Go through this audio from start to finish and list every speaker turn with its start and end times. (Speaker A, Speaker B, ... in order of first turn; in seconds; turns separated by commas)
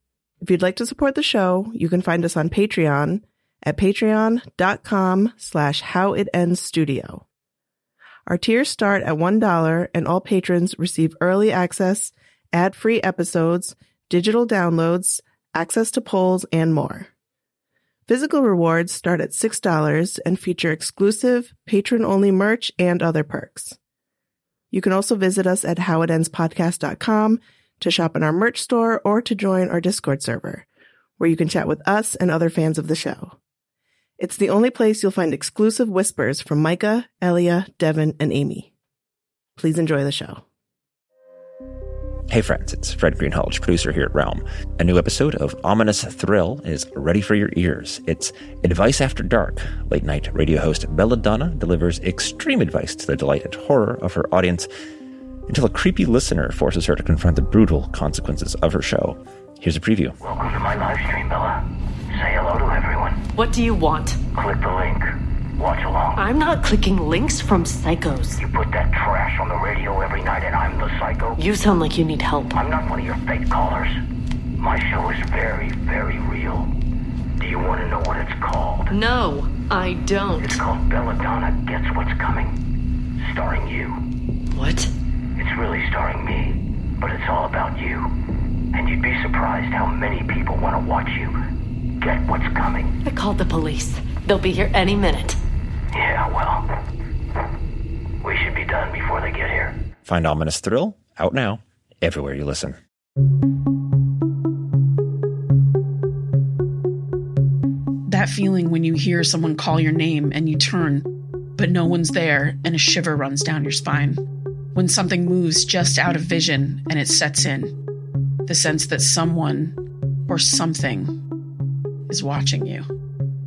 Speaker A: 0.4-7.2, Speaker A: 8.2-17.1, Speaker A: 18.1-23.8, Speaker A: 24.7-30.6, Speaker A: 31.2-33.4, Speaker A: 34.2-38.7, Speaker A: 39.6-40.4, Speaker B: 42.3-54.7, Speaker B: 55.5-60.1, Speaker C: 60.2-63.2, Speaker D: 63.3-64.2, Speaker C: 64.3-66.3, Speaker D: 66.2-68.4, Speaker C: 68.4-71.4, Speaker D: 71.4-72.6, Speaker C: 72.5-74.0, Speaker C: 74.6-76.7, Speaker C: 77.4-79.0, Speaker D: 78.9-80.6, Speaker C: 80.4-82.6, Speaker C: 83.2-84.0, Speaker D: 84.5-84.9, Speaker C: 85.3-88.0, Speaker C: 88.7-91.3, Speaker C: 92.0-93.0, Speaker D: 93.0-95.4, Speaker C: 95.9-96.7, Speaker C: 98.2-99.8, Speaker B: 100.0-102.8, Speaker E: 108.1-111.0, Speaker E: 111.6-114.2, Speaker E: 114.7-117.7, Speaker E: 118.5-119.8, Speaker E: 120.3-121.1, Speaker E: 122.1-122.8